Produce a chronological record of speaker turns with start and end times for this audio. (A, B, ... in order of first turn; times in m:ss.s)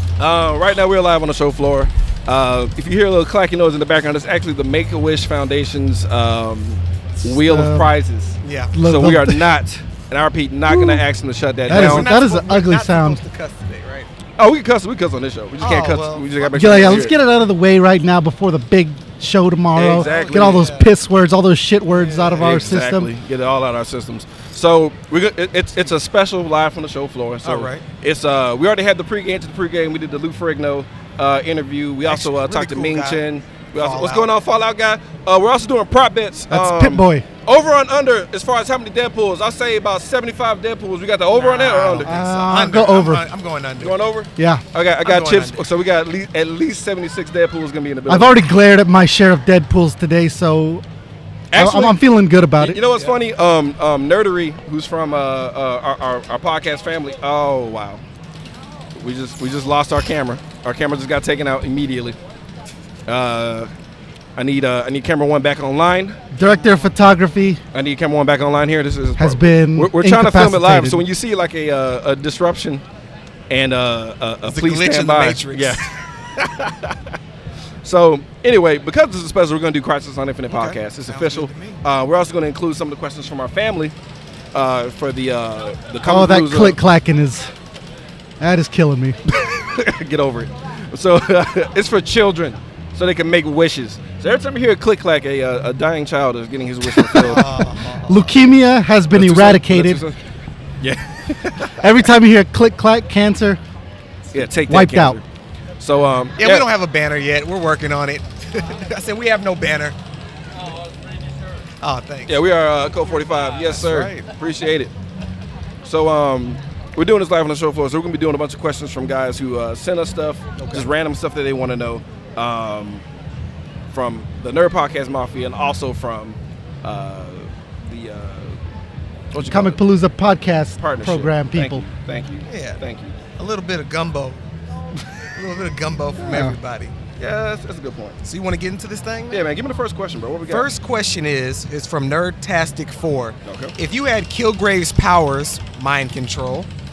0:00.2-0:12.1 A
0:07.2-0:07.9 B
0:08.4-0:08.7 C
0:08.7-0:09.5 B
0:10.7-0:11.0 B
0:11.7-0:13.2 B
0:11.7-0:14.1 C
0:14.4-0:17.1 A
0:15.6-0:16.9 C
0:16.5-0:23.1 B
0:19.7-0:20.7 A
0:19.8-0:20.9 C
0:21.9-0:22.6 C
0:22.4-0:42.1 A
0:27.4-0:27.8 C
0:32.0-0:33.2 C
0:33.7-0:34.3 C
0:36.5-0:37.2 B
0:41.3-0:43.9 C
0:42.0-0:43.2 B
0:43.8-0:48.4 A
0:44.4-0:44.6 B
0:45.0-0:45.6 C
0:48.1-0:50.8 B
0:51.5-0:52.0 A
0:51.5-0:52.8 B
0:52.6-0:58.0 A
0:58.9-1:02.2 A
1:03.1-1:03.7 A
1:04.4-1:06.2 A
1:06.3-1:07.6 B
1:06.4-1:06.9 C
1:07.7-1:12.8 A
1:09.2-1:11.0 B
1:13.5-1:17.2 A
1:14.4-1:15.8 C
1:17.8-1:23.9 A
1:20.5-1:21.8 C
1:24.5-1:26.8 A
1:26.0-1:27.5 B
1:28.4-1:29.2 B
1:29.2-1:37.5 A
1:37.1-1:38.4 C
1:38.1-1:40.0 B
1:39.1-1:40.2 A
1:40.8-1:42.0 A
1:41.8-1:43.6 B
1:44.3-1:45.2 A
1:44.7-1:45.2 B
1:45.8-1:46.7 A
1:46.4-1:50.0 C
1:51.8-1:52.4 C
1:52.3-1:54.9 A
1:53.6-1:54.2 C
1:55.8-2:03.0 A
2:00.6-2:00.9 C
2:03.9-2:08.6 A
2:09.3-2:09.8 A
2:09.4-2:11.8 B
2:10.8-2:13.1 A
2:12.5-2:12.8 C
2:13.4-2:14.4 C
2:15.3-2:16.9 C
2:16.2-2:16.6 B
2:17.2-2:18.2 A
2:18.2-2:19.5 C
2:19.3-2:20.7 A
2:20.5-2:26.7 C
2:23.4-2:23.7 A